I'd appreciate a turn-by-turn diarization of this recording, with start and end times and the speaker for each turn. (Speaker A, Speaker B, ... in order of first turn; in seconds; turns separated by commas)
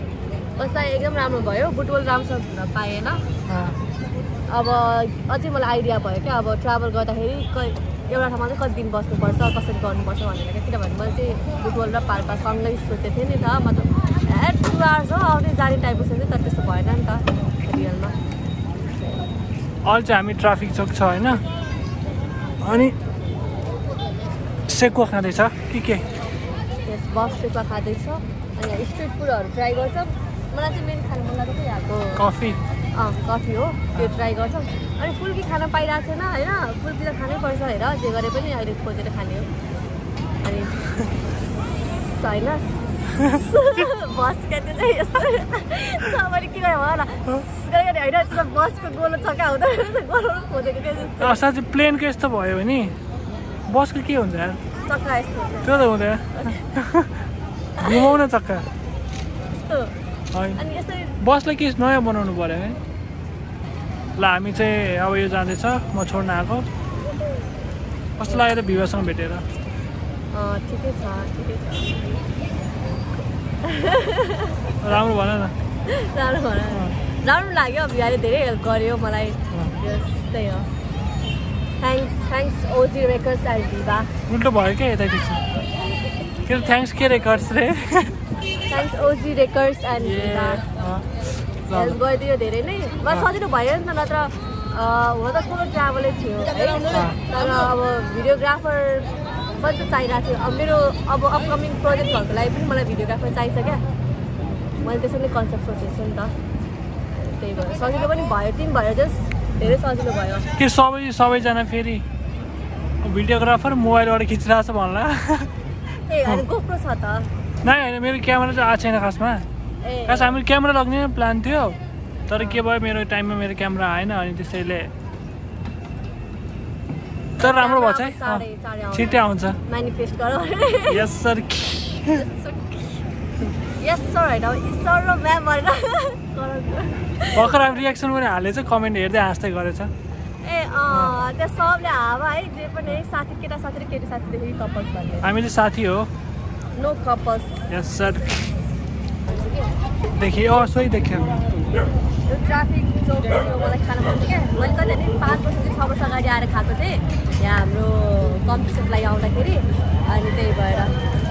Speaker A: 0.6-3.2, Speaker B: 3.5-3.8, Speaker A: 4.5-18.1, Speaker B: 19.9-21.4, Speaker B: 22.6-22.9, Speaker B: 24.7-26.0, Speaker A: 26.9-32.2, Speaker B: 32.2-32.6, Speaker A: 33.0-39.5, Speaker A: 40.4-40.8, Speaker A: 41.9-51.4, Speaker B: 51.2-53.0, Speaker B: 53.7-54.6, Speaker A: 54.9-56.7, Speaker B: 55.6-57.1, Speaker A: 57.8-58.1, Speaker B: 57.8-58.7, Speaker A: 59.5-59.9, Speaker B: 60.3-60.6, Speaker A: 60.6-61.1, Speaker B: 61.2-62.8, Speaker B: 64.2-66.7, Speaker B: 68.2-69.4, Speaker A: 70.3-72.2, Speaker A: 73.6-74.7, Speaker B: 74.8-75.5, Speaker A: 75.9-80.7, Speaker A: 81.8-84.1, Speaker B: 84.3-85.4, Speaker B: 86.5-88.2, Speaker A: 88.7-90.7, Speaker B: 90.0-91.1, Speaker B: 91.7-92.0, Speaker A: 91.7-103.8, Speaker B: 96.9-97.3, Speaker A: 104.8-106.3, Speaker A: 107.1-110.5, Speaker B: 110.6-112.0, Speaker B: 113.0-115.5, Speaker A: 116.1-117.3, Speaker B: 117.6-119.5, Speaker A: 119.8-120.4, Speaker B: 120.1-121.8, Speaker B: 122.3-124.9, Speaker A: 122.3-122.7, Speaker B: 127.4-129.6, Speaker A: 127.4-131.1, Speaker B: 130.9-132.2, Speaker A: 132.1-133.1, Speaker A: 133.7-137.7, Speaker B: 137.3-139.9, Speaker A: 140.4-145.3, Speaker B: 140.9-141.2, Speaker B: 145.2-146.1, Speaker A: 146.8-147.6, Speaker B: 147.7-148.4, Speaker A: 149.2-149.7, Speaker B: 150.2-151.4, Speaker A: 152.3-160.9